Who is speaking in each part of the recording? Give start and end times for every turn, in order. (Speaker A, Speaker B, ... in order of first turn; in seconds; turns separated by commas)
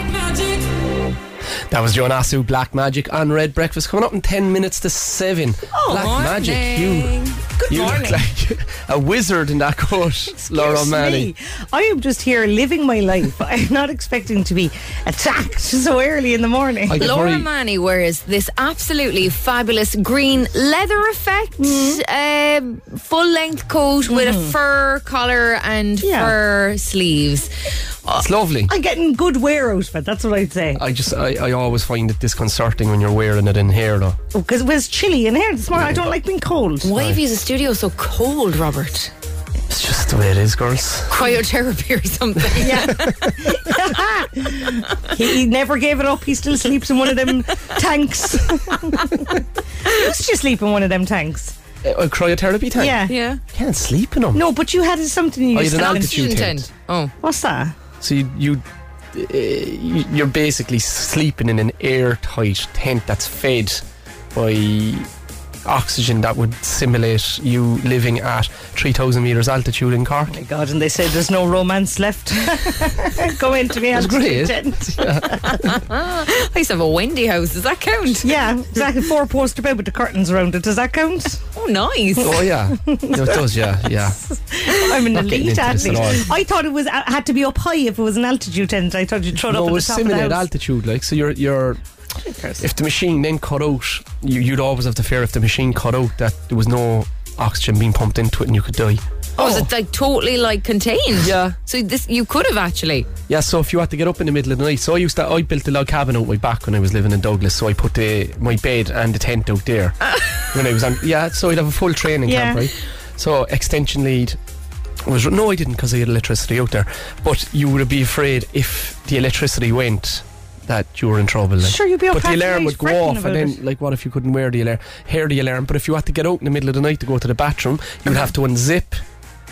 Speaker A: 1.7-11.3, Speaker B: 5.8-6.2, Speaker C: 5.9-8.2, Speaker B: 7.6-8.2, Speaker B: 10.3-17.1, Speaker A: 16.9-17.5, Speaker C: 17.0-27.5, Speaker B: 21.6-22.0, Speaker B: 24.1-24.5, Speaker B: 26.0-26.4, Speaker A: 28.2-28.7, Speaker B: 28.7-30.8, Speaker A: 30.8-34.2, Speaker B: 34.3-36.9, Speaker C: 36.8-39.1, Speaker A: 39.7-41.1, Speaker C: 41.1-43.1, Speaker B: 42.6-51.5, Speaker A: 42.7-43.3, Speaker A: 51.8-53.0, Speaker B: 52.8-53.1, Speaker C: 53.1-53.4, Speaker A: 53.5-54.4, Speaker B: 54.3-56.4, Speaker A: 55.5-56.6, Speaker C: 55.7-57.1, Speaker B: 57.2-57.8, Speaker A: 58.0-63.8, Speaker A: 64.3-65.1, Speaker A: 65.7-70.3, Speaker B: 70.3-75.5, Speaker A: 73.9-75.8, Speaker C: 75.5-78.3, Speaker B: 78.2-81.4, Speaker C: 81.5-82.4, Speaker A: 82.2-84.2, Speaker B: 82.9-83.4, Speaker B: 84.3-90.5, Speaker A: 85.1-86.3, Speaker A: 89.4-91.8, Speaker B: 92.2-92.6, Speaker A: 92.6-99.0, Speaker B: 99.4-99.7, Speaker C: 99.4-103.1, Speaker A: 101.2-101.6, Speaker A: 103.3-114.4, Speaker B: 112.3-112.7, Speaker A: 115.0-129.0, Speaker B: 121.6-123.6